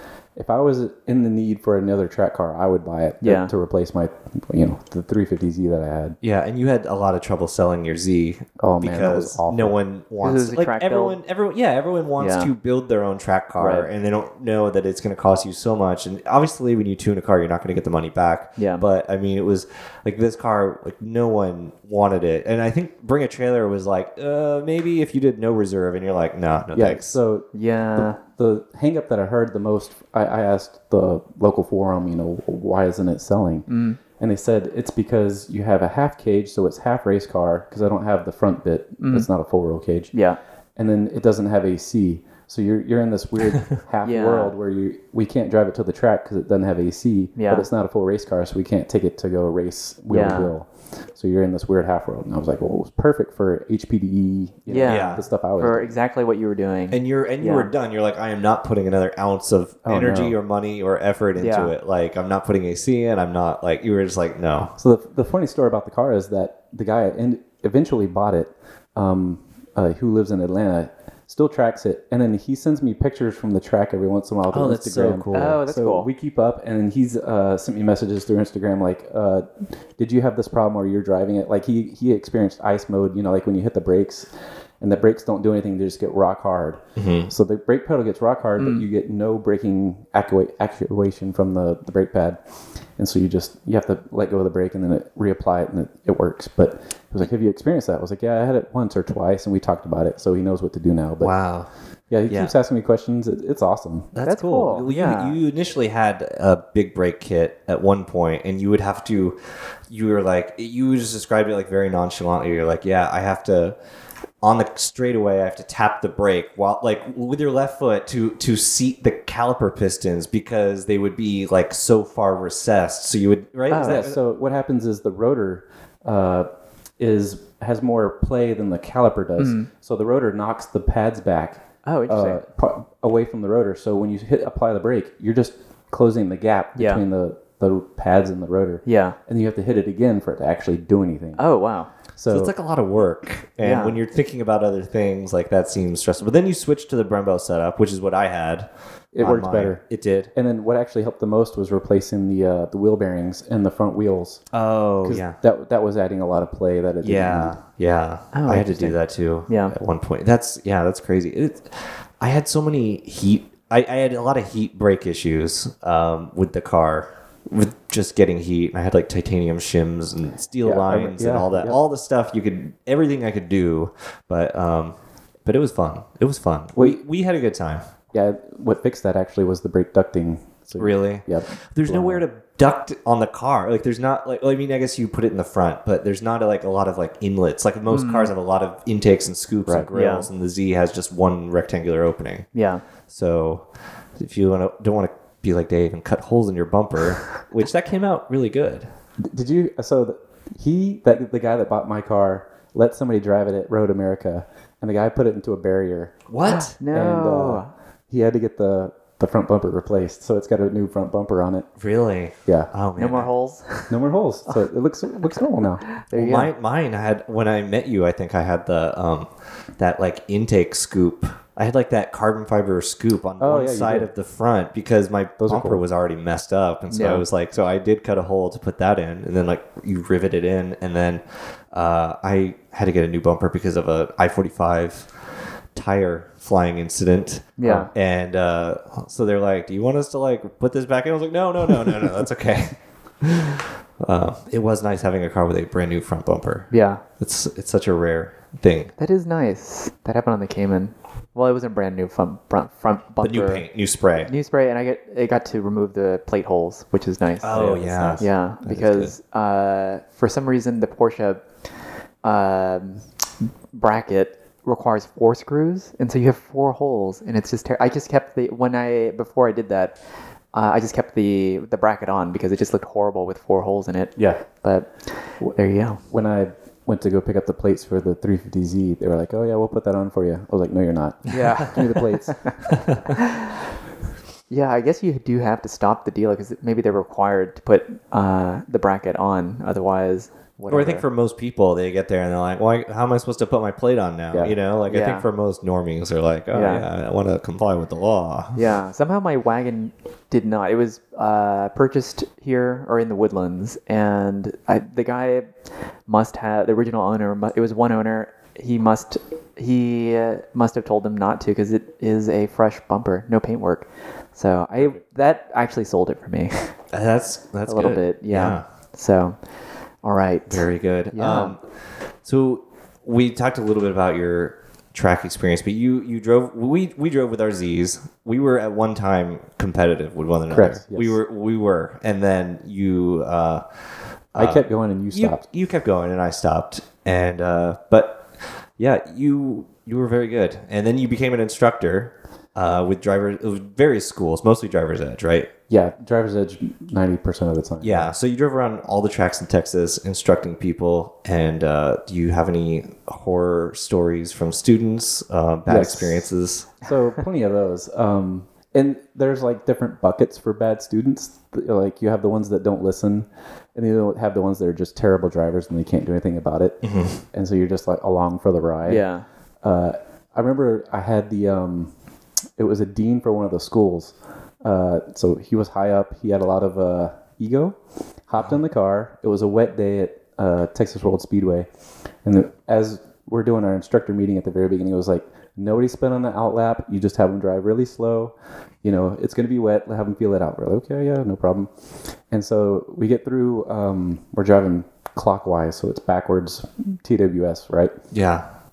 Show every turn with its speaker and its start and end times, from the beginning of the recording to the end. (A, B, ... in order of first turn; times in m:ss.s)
0:00.4-0:06.2 A
0:03.2-0:03.5 B
0:06.2-0:27.2 C
0:08.6-0:09.8 A
0:10.2-0:11.2 B
0:12.2-0:12.5 B
0:13.6-0:13.9 B
0:18.6-0:18.8 B
0:26.7-0:33.7 A
0:27.5-0:28.2 B
0:33.7-0:34.0 B
0:34.2-0:40.1 A
0:39.0-0:39.3 B
0:40.1-0:40.4 B
0:40.8-0:55.9 A
0:44.0-0:44.5 B
0:47.4-0:47.7 B
0:50.1-0:50.5 B
0:54.7-0:57.7 B
0:54.8-0:55.2 C
0:56.9-1:04.7 C
0:59.8-1:00.4 A
1:01.4-1:01.7 B
1:04.8-1:24.3 A
1:14.5-1:15.6 C
1:15.3-1:16.1 B
1:24.8-1:32.4 A
1:27.0-1:27.3 C
1:28.6-1:28.8 B
1:33.0-1:41.3 A
1:41.2-1:41.7 C
1:42.1-1:44.1 A
1:44.1-1:49.4 C
1:44.2-1:45.4 B
1:49.9-1:53.8 C
1:54.4-2:04.2 C
2:03.7-2:04.0 B
2:03.8-2:06.5 A
2:07.0-2:21.4 A
2:09.4-2:09.7 B
2:11.8-2:12.4 B
2:16.8-2:17.0 B
2:18.8-2:19.2 B
2:21.4-2:21.9 B
2:22.2-2:22.5 A
2:22.3-2:30.3 C
2:23.6-2:24.0 B
2:29.1-2:29.8 A
2:30.3-2:34.4 A
2:34.5-2:35.4 C
2:35.0-2:37.6 A
2:37.0-2:57.9 C
2:38.3-2:39.0 B
2:39.5-2:39.7 B
2:50.6-2:51.8 A
2:56.7-2:57.0 A
2:58.1-3:02.2 A
3:00.8-3:12.5 C
3:07.9-3:08.3 B
3:09.9-3:10.3 B
3:12.5-3:12.8 B
3:13.1-3:13.6 C
3:14.2-3:18.9 C
3:19.2-3:26.1 A
3:26.3-3:26.8 C
3:26.4-3:27.7 B
3:26.8-3:31.7 A
3:31.8-3:33.3 C
3:33.0-3:34.0 B
3:33.9-3:35.8 A
3:34.5-3:36.5 B
3:36.1-3:55.1 C
3:43.4-3:44.1 A
3:45.4-3:45.8 A
3:46.9-3:47.2 B
3:55.7-4:08.9 C
3:57.6-3:57.9 B
4:06.7-4:07.0 B
4:09.0-4:13.6 B
4:13.2-4:14.3 C
4:14.2-4:21.4 B
4:17.4-4:19.1 C
4:22.2-4:23.0 B
4:23.7-4:30.0 B
4:30.5-4:36.0 B
4:34.2-4:34.4 A
4:36.1-4:42.8 A
4:41.3-4:43.4 B
4:42.8-4:43.1 C
4:44.5-4:51.0 B
4:50.7-4:58.6 C
4:54.9-4:55.2 B
4:56.5-4:56.8 B
4:58.5-5:05.5 B
5:06.1-5:16.7 B
5:16.9-5:18.6 C
5:17.7-5:19.4 B
5:20.0-5:21.5 B
5:20.5-5:21.6 C
5:22.2-5:33.6 C
5:30.5-5:31.2 A
5:34.3-5:38.2 C
5:34.4-5:35.4 A
5:38.8-5:45.5 C
5:45.7-5:48.1 A
5:47.8-5:56.7 C
5:55.6-5:56.3 A
5:56.8-6:09.0 A
6:06.8-6:07.2 C
6:08.8-6:09.2 B
6:09.6-6:11.9 A
6:12.6-6:17.8 A
6:18.3-6:21.7 A
6:22.2-6:31.7 A
6:32.3-6:37.9 A
6:38.1-6:38.4 C